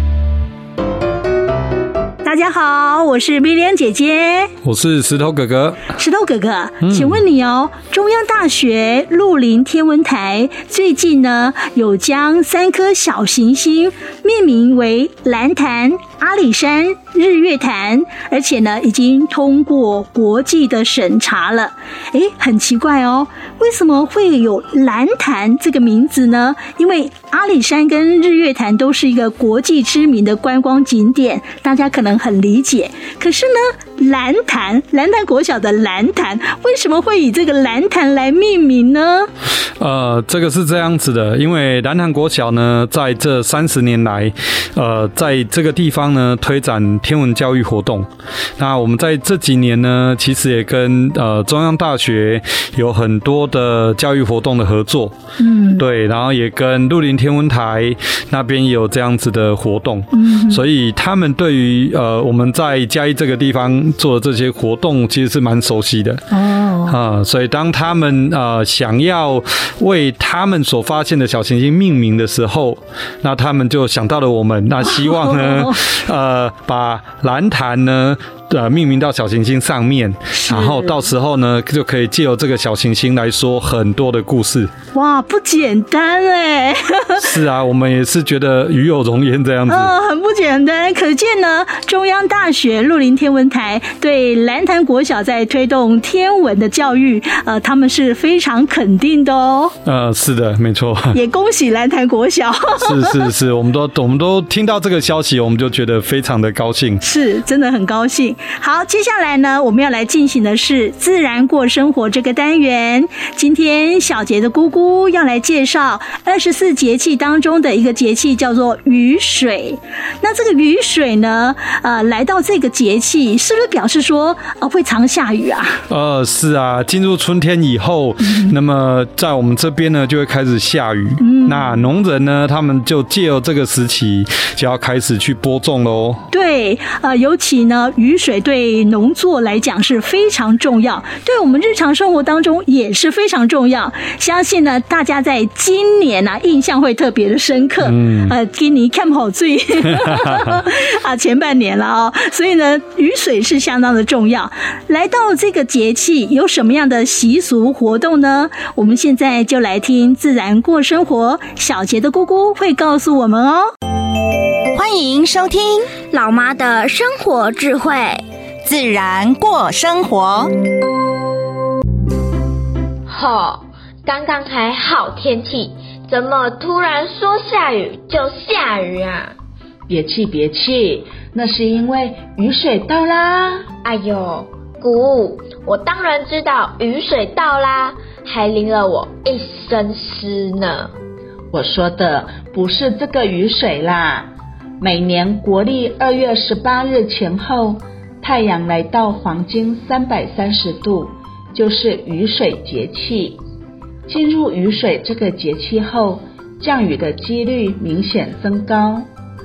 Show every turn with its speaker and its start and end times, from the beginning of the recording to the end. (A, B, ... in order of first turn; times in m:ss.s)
0:02.2-0:04.5 A
0:04.6-0:05.9 B
0:06.0-0:39.3 A
0:06.8-0:07.2 B
0:39.8-0:55.1 B
0:55.4-0:55.8 A
0:55.8-1:06.2 B
1:00.1-1:00.6 A
1:06.3-1:07.0 A
1:06.9-1:24.7 B
1:14.8-1:15.7 A
1:20.3-1:21.1 A
1:25.0-1:27.4 A
1:27.2-1:29.9 B
1:29.7-1:39.7 A
1:39.9-1:41.2 B
1:41.1-1:43.3 A
1:42.8-1:47.0 B
1:47.0-2:05.8 A
2:05.9-2:16.2 B
2:08.2-2:08.6 A
2:11.2-2:11.9 A
2:16.3-2:43.7 A
2:27.8-2:28.3 B
2:44.8-2:45.8 C
2:46.0-2:48.2 D
2:48.7-2:50.4 C
2:53.1-2:59.4 E
2:59.9-3:03.7 F
3:03.8-3:10.9 E
3:11.5-3:14.3 F
3:14.8-3:23.4 F
3:24.1-3:29.1 F